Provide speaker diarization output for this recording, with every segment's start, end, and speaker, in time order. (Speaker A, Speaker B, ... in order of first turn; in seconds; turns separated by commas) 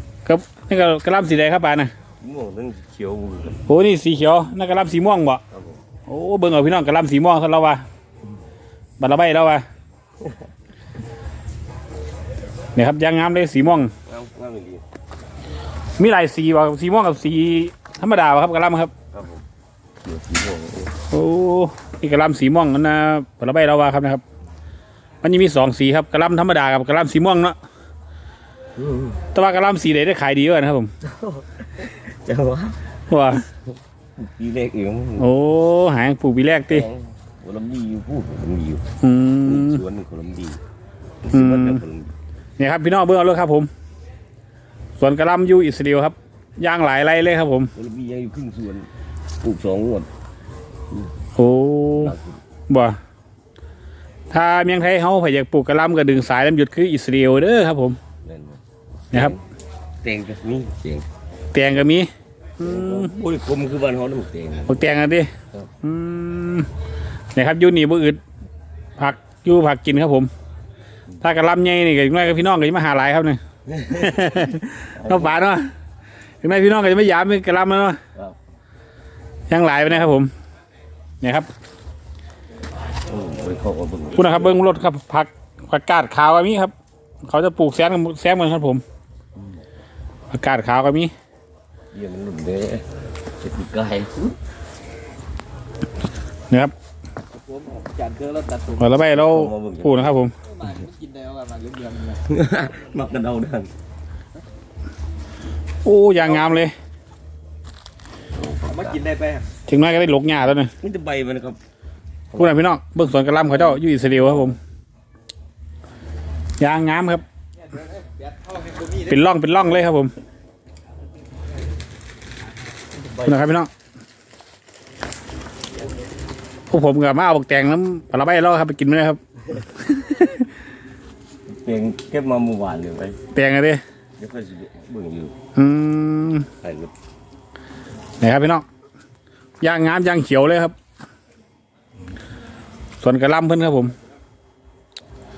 Speaker A: 0.2-1.9, Speaker B: 2.2-3.6, Speaker A: 3.7-5.4, Speaker B: 5.5-5.8, Speaker A: 6.1-7.8, Speaker A: 9.0-9.7, Speaker A: 12.8-13.9, Speaker B: 14.1-14.8, Speaker A: 16.0-18.9, Speaker B: 19.1-19.5, Speaker B: 20.0-20.9, Speaker A: 21.1-24.2, Speaker A: 25.2-27.6, Speaker B: 28.8-29.2, Speaker A: 29.3-30.9, Speaker B: 31.0-32.8, Speaker A: 33.1-33.5, Speaker B: 34.2-35.3, Speaker A: 35.2-36.9, Speaker B: 36.7-38.8, Speaker A: 39.0-39.8, Speaker B: 39.4-40.6, Speaker B: 41.2-42.1, Speaker A: 41.3-41.8, Speaker A: 42.6-43.7, Speaker A: 45.0-47.7, Speaker B: 47.8-48.9, Speaker B: 49.4-50.1, Speaker A: 51.4-52.2, Speaker B: 52.0-52.4, Speaker A: 52.7-53.0, Speaker A: 54.3-58.0, Speaker B: 58.2-59.4, Speaker B: 60.0-61.1, Speaker A: 61.5-63.1, Speaker B: 62.6-64.8, Speaker A: 64.7-65.3, Speaker A: 65.8-66.7, Speaker A: 67.3-68.2, Speaker A: 69.0-70.3, Speaker A: 71.2-75.7, Speaker B: 73.7-75.4, Speaker A: 76.4-78.0, Speaker A: 79.5-80.3, Speaker A: 81.2-81.5, Speaker B: 83.1-84.6, Speaker A: 84.2-86.7, Speaker A: 87.2-88.8, Speaker A: 90.3-91.1, Speaker B: 91.9-92.8, Speaker B: 93.4-94.4, Speaker C: 97.4-98.8, Speaker A: 98.8-100.3, Speaker B: 98.9-100.2, Speaker C: 100.6-102.2, Speaker B: 102.2-103.7, Speaker A: 105.8-106.7, Speaker B: 108.3-109.1, Speaker C: 108.8-109.5, Speaker A: 109.7-110.7, Speaker B: 110.8-111.6, Speaker B: 112.3-112.6, Speaker A: 112.3-114.6, Speaker B: 113.5-114.6, Speaker A: 116.6-117.2, Speaker C: 117.9-118.9, Speaker A: 118.9-120.1, Speaker A: 123.2-123.7, Speaker A: 126.7-130.5, Speaker B: 131.5-133.2, Speaker A: 133.3-133.8, Speaker B: 134.2-135.3, Speaker A: 135.6-136.5, Speaker B: 136.6-136.9, Speaker A: 138.2-138.7, Speaker A: 139.6-140.7, Speaker A: 143.0-143.9